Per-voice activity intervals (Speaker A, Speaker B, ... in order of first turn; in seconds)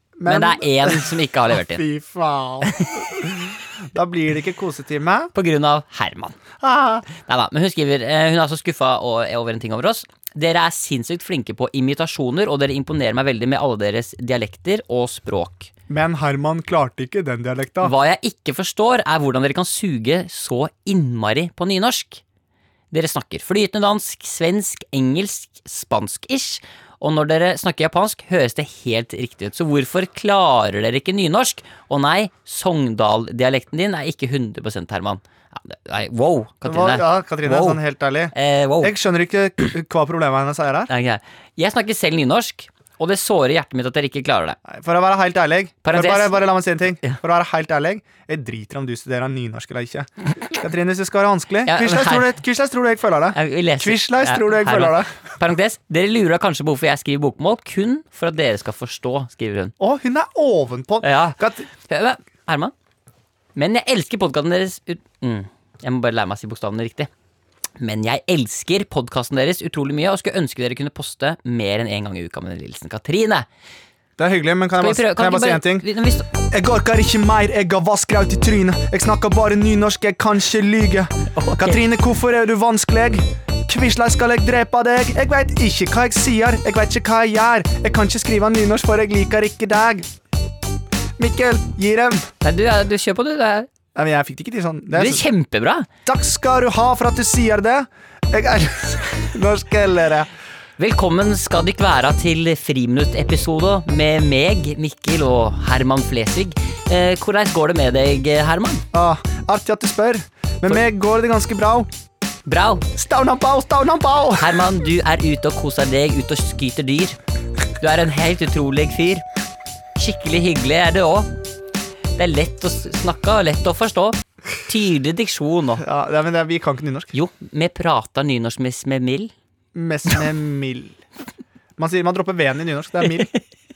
Speaker A: 0.2-5.3, 6.6-7.1, 15.9-17.9, 36.6-40.9, 44.6-55.1, 59.8-61.7, 74.2-75.9, 76.5-90.1, 91.2-92.3, 93.9-95.2, 96.0-100.3, 108.9-111.9, 112.9-114.6, 125.8-127.1, 129.7-131.0, 131.8-133.3
Speaker B: 0.2-1.8, 5.3-6.4, 7.2-15.7, 17.8-22.2, 22.9-37.8, 38.3-38.9, 40.9-44.6, 45.8-46.5, 51.6-52.4, 53.3-59.7, 61.0-62.7, 63.5-67.1, 67.8-73.5, 74.8-76.3, 81.3-81.8, 92.4-93.7, 94.9-95.9, 100.8-108.8, 112.5-112.8, 114.4-117.2, 117.8-119.2, 120.0-121.3, 122.2-125.8, 127.1-129.3